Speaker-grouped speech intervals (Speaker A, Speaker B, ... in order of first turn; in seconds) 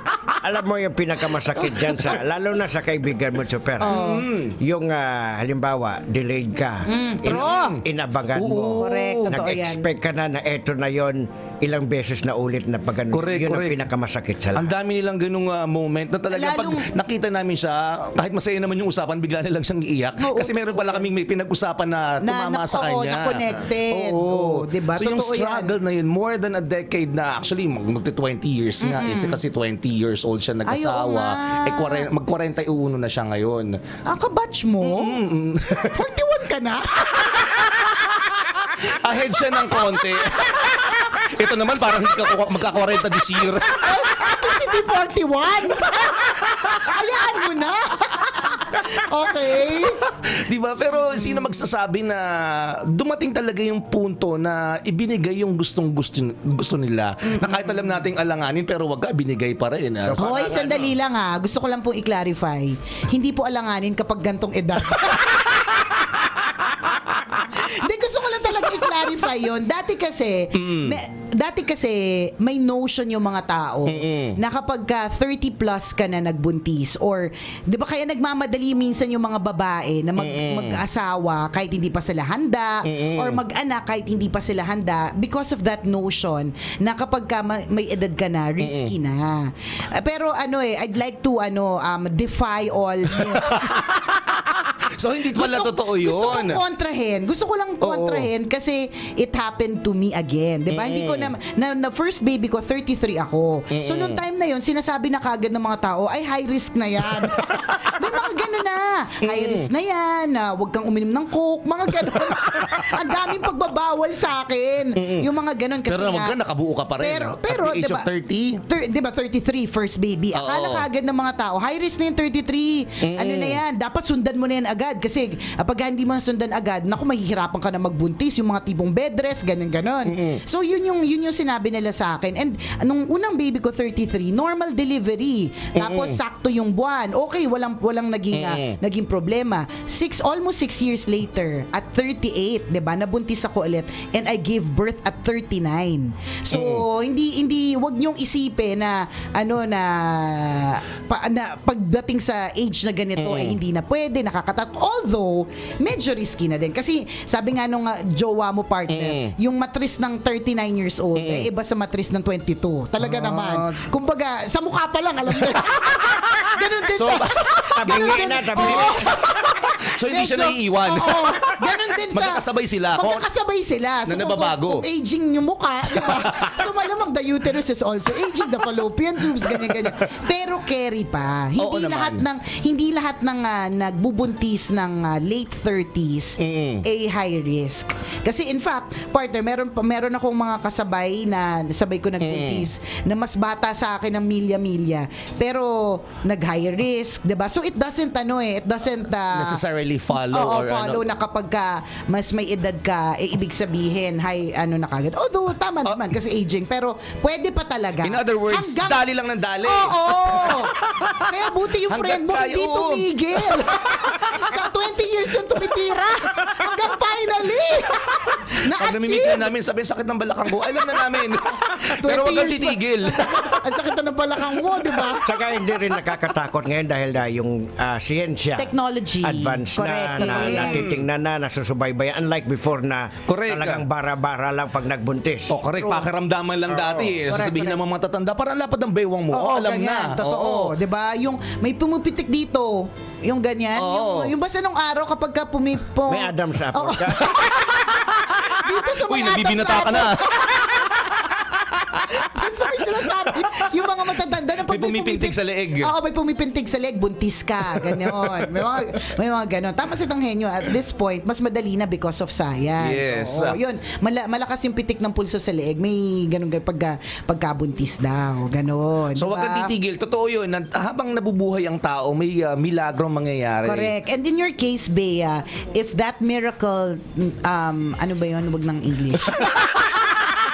Speaker A: 0.4-3.9, 4.6-14.7, 60.0-60.8, 167.8-169.0, 225.2-228.7, 229.2-235.6, 246.1-247.3
Speaker B: 1.6-2.0, 3.8-4.3, 6.8-7.8, 8.7-9.8, 16.3-16.8, 20.2-21.1, 22.2-25.7, 28.8-29.4, 30.6-32.1, 34.1-35.2, 35.8-38.1, 39.6-40.0, 43.6-50.0, 57.3-57.8, 60.2-65.6, 67.4-93.8, 95.3-116.3, 117.0-118.0, 118.7-199.6, 200.3-209.0, 209.6-219.5, 220.7-221.1, 221.7-225.2, 228.6-230.8, 235.8-236.1, 236.7-237.8, 239.3-251.2, 252.1-269.7, 273.6-280.2
Speaker C: 3.8-4.6, 7.2-7.8, 8.3-9.5, 13.1-13.8, 14.5-33.8, 34.8-36.0, 37.2-44.1, 50.3-60.8, 70.5-71.0, 73.9-74.4, 80.2-80.8, 82.8-83.4, 88.6-88.9, 93.2-96.6, 97.8-98.3, 100.7-101.3, 103.7-104.2, 109.2-109.7, 112.3-113.0, 115.0-115.3, 115.8-118.6, 120.3-120.8, 123.0-123.6, 130.1-130.4, 135.8-136.2, 138.3-138.8, 146.5-146.8, 153.2-153.6, 158.9-159.3, 161.2-161.5, 163.0-163.8, 165.3-173.2, 174.1-174.8, 175.9-176.6, 179.5-179.8, 181.6-182.2, 186.4-186.8, 192.2-192.7, 199.3-201.0, 205.8-206.1, 208.0-214.5, 218.8-223.7, 230.2-231.0, 233.3-233.8, 235.5-240.7, 243.8-244.3, 247.3-252.2, 254.7-255.9, 257.7-258.6, 262.8-263.6, 269.1-273.9, 279.3-279.8